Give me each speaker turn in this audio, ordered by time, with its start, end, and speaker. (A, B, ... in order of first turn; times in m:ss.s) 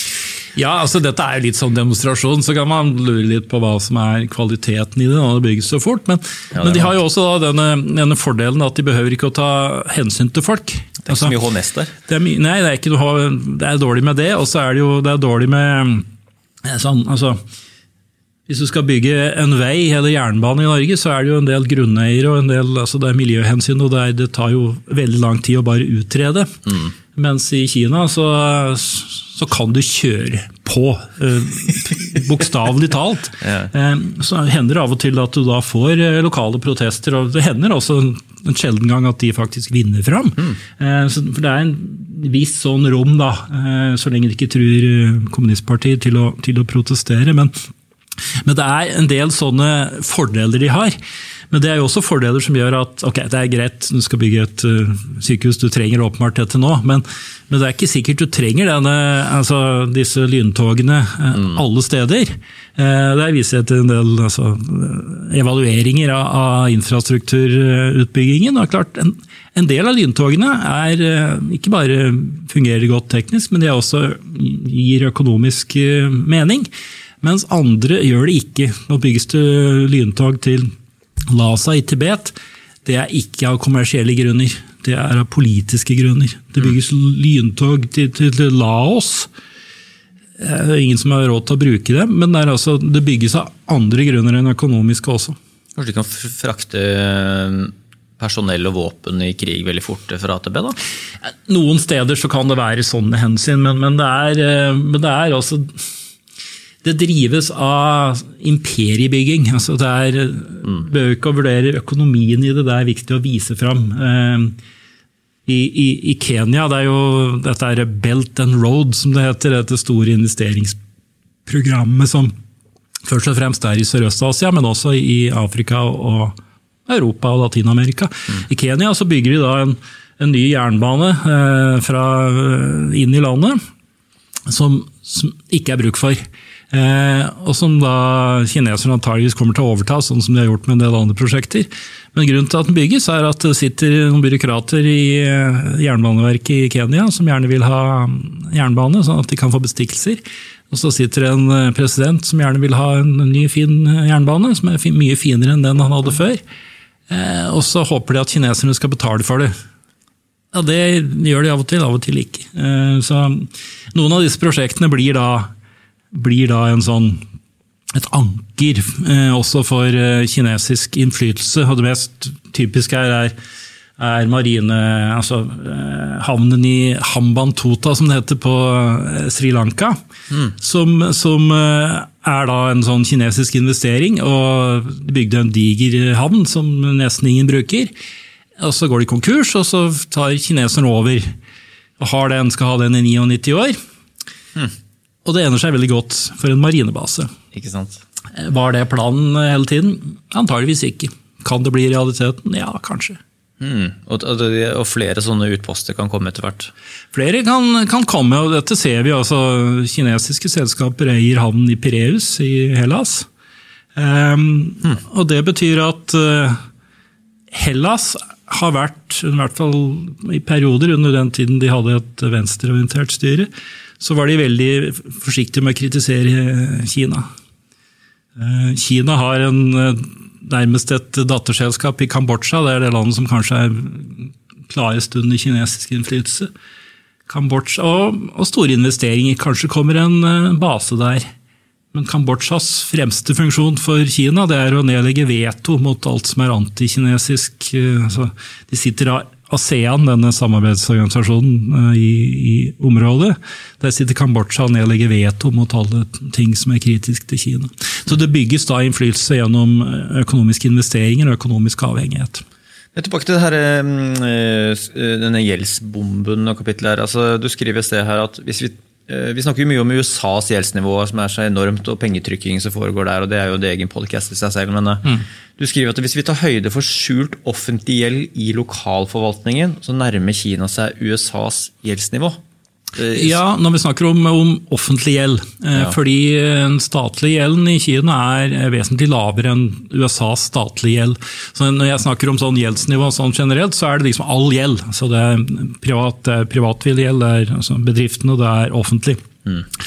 0:00.5-0:11.4 A
0:06.5-0:06.9 B
0:11.0-0:11.9 B
0:12.0-0:16.0 A
0:16.6-0:17.4 A
0:18.5-0:47.5 A
0:48.4-0:51.0 A
0:51.5-1:16.7 A
1:17.2-1:20.7 A
1:21.3-1:22.3 A
1:22.8-1:29.3 A
1:30.4-1:35.4 A
1:35.8-1:40.8 B
1:41.4-1:45.7 A
1:46.8-1:54.6 A
1:55.5-2:00.8 A
2:01.4-2:02.3 A
2:03.0-2:06.4 A
2:06.9-2:13.6 A
2:14.5-2:36.4 A
2:37.1-2:39.5 A
2:40.5-2:45.5 A
2:46.1-2:47.2 A
2:47.9-2:53.3 A
2:54.0-3:07.9 A
3:08.6-3:11.3 A
3:12.0-3:13.8 A
3:15.2-3:17.3 A
3:17.5-3:18.0 B
3:18.3-3:23.2 A
3:23.6-3:26.7 B
3:27.1-3:33.3 A
3:34.0-3:36.6 A
3:37.5-3:47.3 A
3:48.4-3:56.5 A
3:57.3-4:01.3 A
4:01.9-4:22.4 A
4:22.9-4:42.4 B
4:42.9-4:43.4 B
4:43.1-4:59.2 A